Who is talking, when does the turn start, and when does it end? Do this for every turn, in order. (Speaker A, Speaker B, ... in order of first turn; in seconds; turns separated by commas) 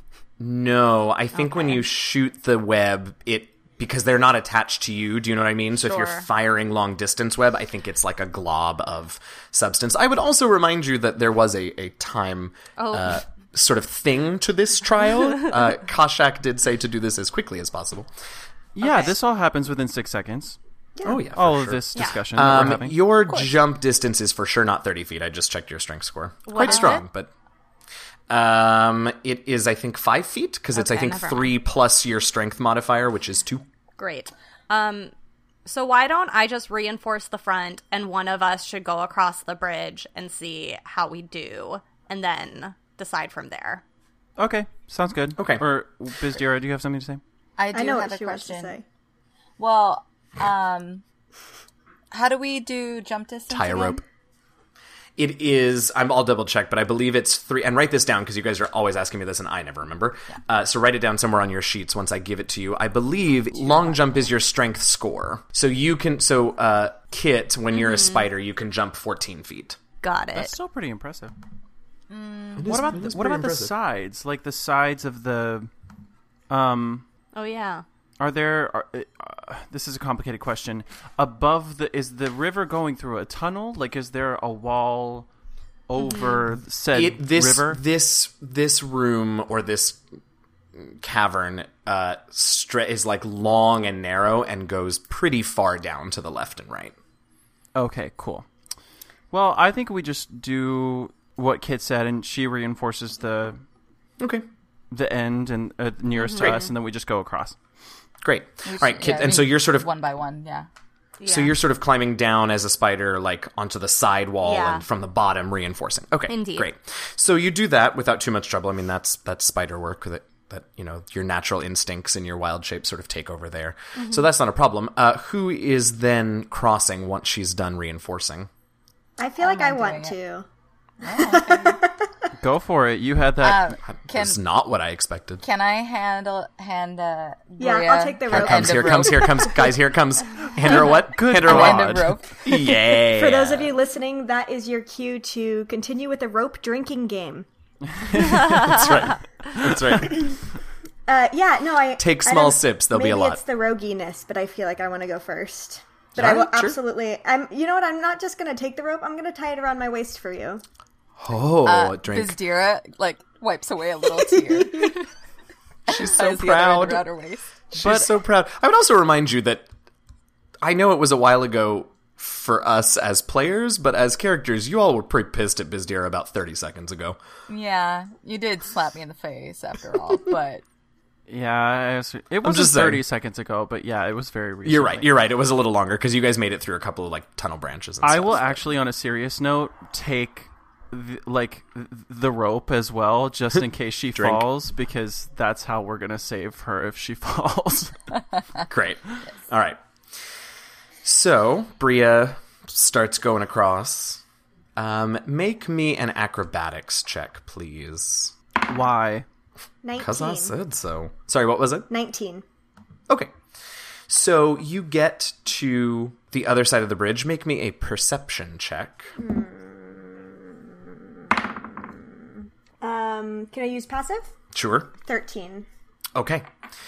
Speaker A: 0.4-18.1, Speaker B: 1.4-1.8, Speaker B: 5.8-6.3, Speaker B: 12.8-13.2, Speaker C: 18.8-20.6, Speaker B: 18.8-19.1, Speaker D: 21.0-21.2, Speaker A: 21.0-27.3, Speaker C: 21.3-23.0, Speaker B: 26.5-27.0, Speaker A: 28.3-33.6, Speaker B: 30.7-31.6, Speaker B: 34.0-35.1, Speaker B: 35.6-43.8, Speaker C: 44.4-47.2, Speaker A: 45.4-45.6, Speaker E: 47.6-48.8, Speaker D: 47.7-48.8, Speaker E: 49.6-51.0, Speaker E: 52.1-54.0, Speaker A: 53.5-54.0, Speaker A: 55.2-69.8, Speaker B: 67.7-68.2, Speaker B: 70.0-70.5, Speaker C: 70.3-71.3, Speaker E: 72.1-72.9, Speaker A: 72.6-73.7, Speaker C: 72.7-75.7, Speaker C: 76.5-77.0, Speaker B: 77.3-77.8, Speaker C: 78.2-85.3, Speaker C: 85.9-87.8, Speaker B: 86.0-86.3, Speaker A: 86.9-90.0, Speaker A: 90.7-96.9, Speaker C: 97.7-98.5, Speaker C: 99.3-103.6, Speaker A: 104.2-104.4, Speaker C: 104.9-107.6, Speaker B: 106.2-106.7, Speaker A: 108.2-109.9, Speaker E: 108.7-110.7, Speaker B: 111.2-111.5, Speaker A: 111.2-128.5, Speaker B: 114.4-114.8, Speaker B: 116.3-116.7, Speaker B: 124.0-124.3, Speaker D: 129.2-130.4, Speaker E: 129.4-130.2, Speaker E: 131.0-131.8, Speaker D: 131.1-131.9, Speaker C: 132.4-133.7, Speaker E: 133.4-134.4, Speaker A: 133.9-135.4, Speaker E: 135.4-139.6, Speaker D: 137.6-139.7, Speaker A: 138.3-143.8, Speaker C: 141.0-142.2, Speaker E: 141.3-142.7, Speaker D: 142.9-147.4, Speaker C: 147.9-148.9, Speaker B: 148.2-149.1, Speaker A: 148.4-150.3, Speaker D: 151.1-160.6, Speaker A: 152.0-153.4, Speaker A: 156.1-156.8, Speaker A: 161.2-162.4, Speaker E: 161.6-165.1, Speaker A: 165.9-167.0, Speaker E: 165.9-167.5, Speaker A: 167.7-169.7, Speaker C: 167.7-168.1, Speaker A: 170.6-177.2, Speaker E: 177.5-180.6, Speaker C: 181.3-185.1, Speaker A: 182.4-183.0, Speaker A: 184.6-188.6, Speaker C: 188.0-198.2, Speaker A: 194.1-194.4, Speaker A: 198.7-199.8, Speaker A: 201.0-204.2, Speaker A: 204.8-208.3, Speaker C: 208.6-209.2, Speaker D: 209.8-210.5, Speaker A: 209.9-211.9, Speaker D: 211.9-212.4, Speaker A: 214.1-219.1, Speaker D: 219.2-222.3, Speaker D: 222.8-224.3, Speaker A: 224.5-224.9, Speaker D: 225.0-225.7, Speaker A: 226.1-226.5